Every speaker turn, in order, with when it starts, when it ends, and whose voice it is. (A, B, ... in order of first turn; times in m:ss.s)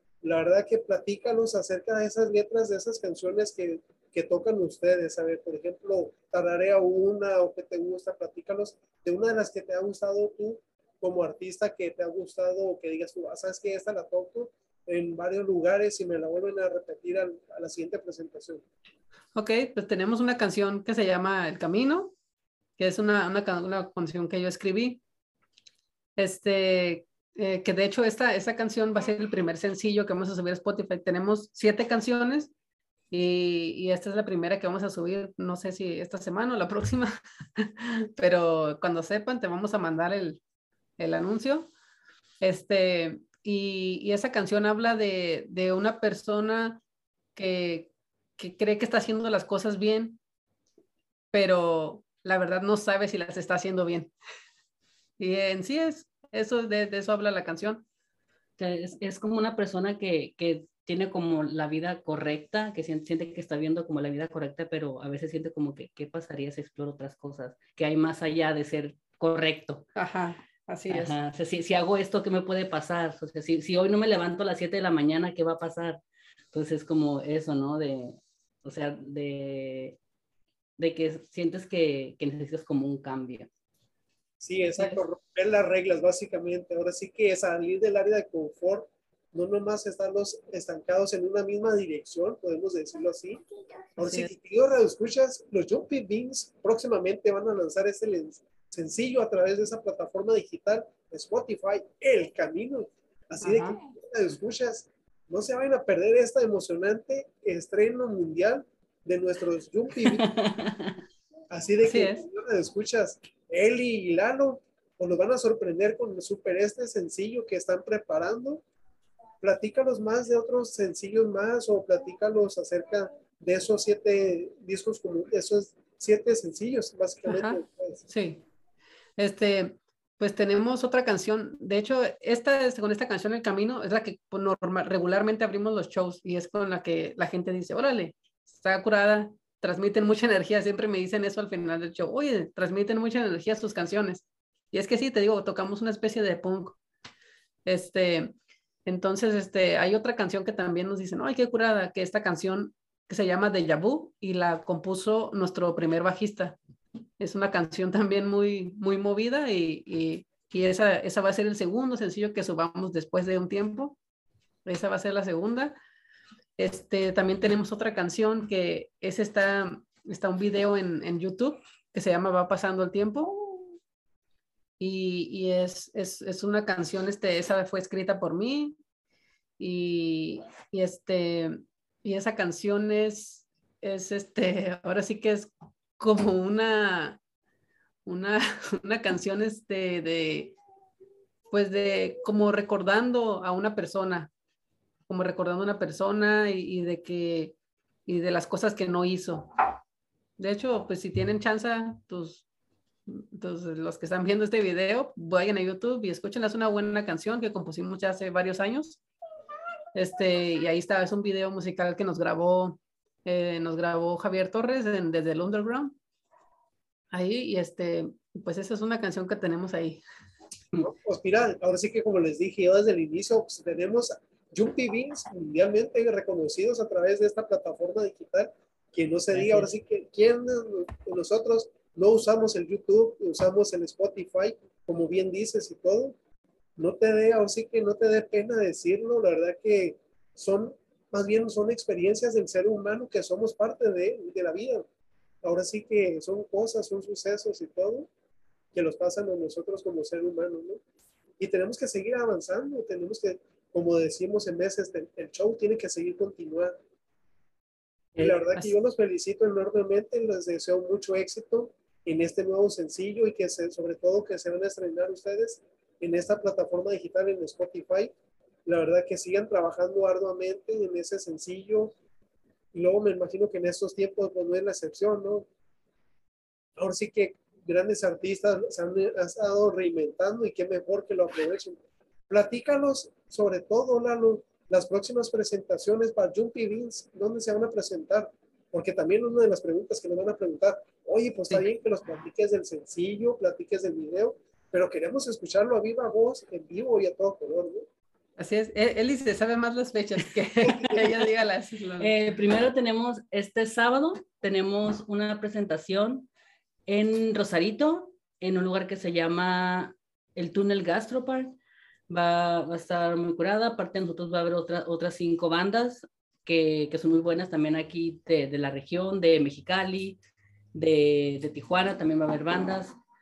0:00.2-0:18.6 A
0:19.3-0:22.1 B
0:22.8-0:25.0 B
0:26.2-0:32.5 B
0:33.1-0:40.4 B
0:41.0-0:41.7 B
0:42.4-0:46.8 B
0:47.3-0:50.2 B
0:51.3-0:54.1 B
0:55.2-0:57.8 B
0:58.6-1:09.9 C
1:10.0-1:11.2 B
1:10.9-1:16.0 C
1:16.5-1:20.0 C
1:20.8-1:23.5 C
1:24.4-1:33.4 A
1:24.8-1:25.0 B
1:34.0-1:50.3 A
1:34.0-1:34.3 B
1:43.4-1:43.8 B
1:50.1-1:50.9 C
1:51.5-1:58.6 A
1:51.8-1:52.2 B
1:59.4-2:08.0 A
2:07.2-2:08.4 B
2:09.2-2:26.8 B
2:27.6-2:28.3 B
2:28.8-2:36.6 B
2:37.2-2:44.0 B
2:44.6-2:45.8 B
2:46.6-2:53.3 B
2:54.8-2:58.7 B
2:59.6-3:07.2 B
3:08.0-3:10.6 B
3:11.5-3:14.3 B
3:15.1-3:17.5 B
3:18.0-3:19.5 B
3:20.4-3:22.4 B
3:23.1-3:29.0 B
3:29.9-3:35.9 B
3:37.1-3:40.0 B
3:40.8-3:56.2 A
3:49.3-3:49.7 C
3:56.8-4:04.8 A
4:05.4-4:08.1 A
4:08.7-4:10.8 A
4:11.4-4:16.7 A
4:18.1-4:18.7 C
4:18.2-4:28.1 A
4:28.6-4:31.9 A
4:32.7-4:35.5 A
4:36.8-4:57.8 A
4:58.4-5:02.1 B
5:02.0-5:06.3 C
5:06.9-5:11.5 C
5:12.1-5:20.2 C
5:20.7-5:23.0 C